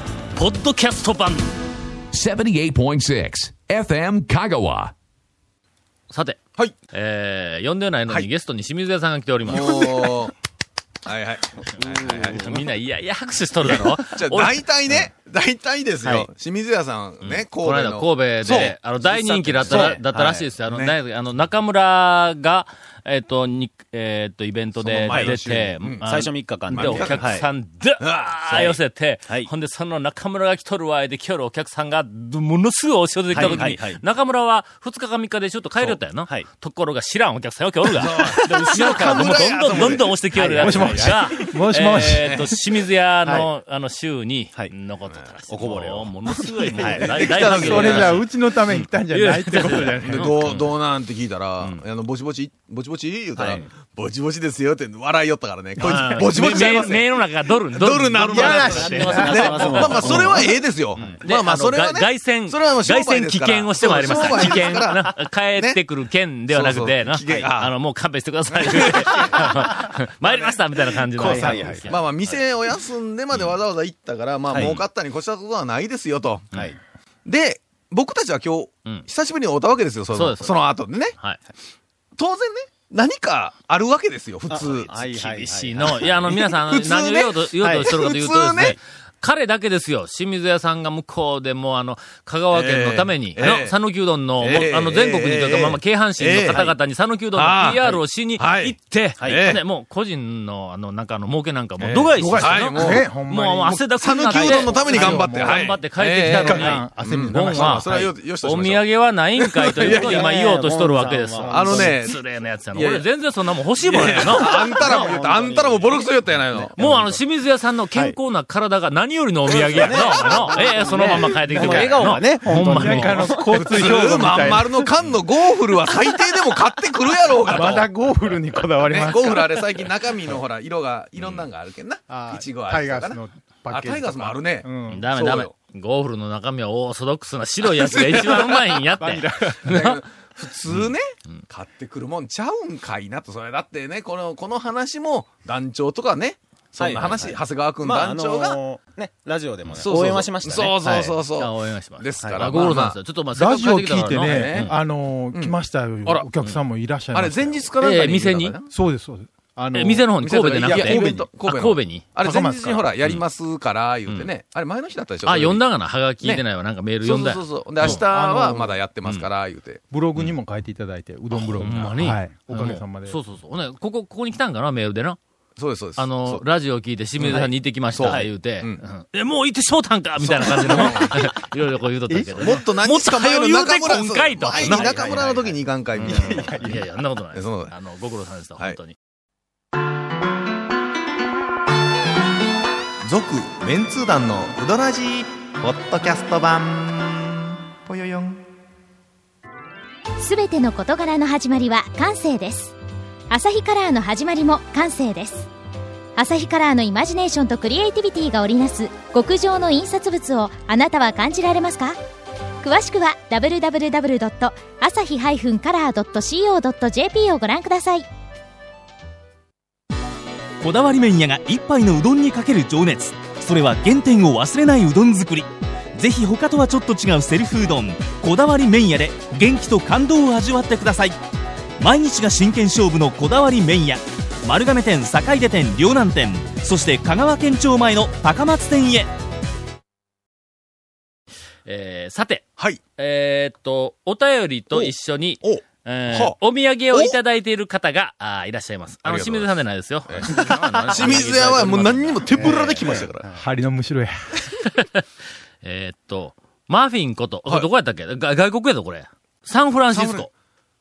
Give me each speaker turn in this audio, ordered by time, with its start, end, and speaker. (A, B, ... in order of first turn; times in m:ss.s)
0:00.3-0:01.5 A
0:02.1-0:04.9 B
0:06.1-0:06.4 A
0:06.9-0:10.1 A
0:09.4-0:10.3 C
0:11.0-0:12.6 C
0:11.7-0:14.6 A
0:13.6-0:19.9 C
0:16.0-0:16.3 D
0:17.2-0:50.7 A
0:19.1-0:20.9 D
0:24.8-0:26.0 C
0:25.1-0:25.4 D
0:26.0-0:27.4 D
0:26.7-0:27.5 C
0:28.0-0:28.8 C
0:33.3-0:34.0 D
0:33.3-0:33.6 C
0:35.8-0:36.5 D
0:38.0-0:40.2 C
0:38.2-0:39.1 D
0:39.8-0:41.5 D
0:40.6-0:42.6 E
0:45.5-0:46.1 D
0:46.4-0:50.5 E
0:46.8-0:47.2 D
0:47.0-0:48.2 C
0:50.0-0:57.2 C
0:53.4-0:53.6 A
0:55.8-1:00.4 A
0:57.7-1:05.8 C
0:58.3-1:01.2 D
0:58.4-0:59.7 E
1:01.0-1:12.4 A
1:04.0-1:04.8 D
1:06.5-1:07.7 C
1:08.5-1:09.7 C
1:09.1-1:09.9 D
1:11.1-1:11.9 D
1:11.3-1:16.5 C
1:14.5-1:14.8 D
1:17.2-1:21.1 C
1:20.1-1:20.6 A
1:22.2-1:24.9 C
1:24.5-1:26.4 D
1:24.9-1:55.1 A
1:26.3-1:28.8 C
1:27.6-1:27.9 D
1:32.5-1:33.7 C
1:34.4-1:36.7 C
1:36.5-1:36.7 D
1:37.3-1:39.6 C
1:41.8-1:43.0 C
1:42.2-1:48.1 E
1:44.0-1:48.9 C
1:49.4-1:50.3 C
1:49.8-1:52.0 D
1:51.5-1:52.2 C
1:52.7-1:53.0 C
1:53.8-1:56.7 C
1:53.9-1:57.2 D
1:56.8-2:03.6 A
1:56.8-1:57.0 E
1:59.5-2:01.2 C
1:59.7-2:04.0 D
2:01.0-2:04.9 E
2:03.5-2:07.9 C
2:07.5-2:09.9 E
2:08.8-2:13.2 C
2:12.1-2:15.1 E
2:13.7-2:15.5 C
2:14.9-2:20.0 A
2:17.7-2:18.7 C
2:19.0-2:19.8 E
2:19.7-2:28.6 C
2:20.7-2:21.4 A
2:26.8-2:31.1 D
2:29.8-2:33.0 C
2:31.4-2:34.8 A
2:33.3-2:37.6 E
2:34.1-2:34.7 C
2:35.3-2:36.3 C
2:37.1-2:38.7 C
2:37.8-2:38.6 A
2:38.7-2:41.3 E
2:39.7-2:42.1 A
2:40.2-2:45.6 C
2:42.2-2:42.9 E
2:45.2-2:48.0 A
2:47.0-2:49.8 C
2:47.8-2:48.7 E
2:49.9-2:53.2 E
2:51.4-2:55.2 A
2:55.6-2:56.4 C
2:56.0-3:05.3 A
2:57.2-2:58.8 C
2:58.0-2:58.3 D
3:00.2-3:01.2 C
3:02.4-3:06.8 C
3:04.6-3:05.4 D
3:06.0-3:08.9 A
3:06.0-3:06.6 D
3:06.2-3:06.7 E
3:07.3-3:07.7 C
3:13.0-3:18.4 C
3:20.2-3:22.7 F
3:23.3-3:25.5 F
3:26.2-3:32.0 F
3:32.6-3:38.0 F
3:40.6-3:51.2 G
3:51.8-3:59.1 G
4:01.6-4:12.6 A
4:04.7-4:06.4 C
4:09.0-4:09.5 C
4:10.1-4:13.3 C
4:10.5-4:11.2 D
4:12.3-4:13.4 D
4:13.3-4:14.6 E
4:14.7-4:15.0 A
4:15.6-4:20.3 A
4:19.9-4:20.3 C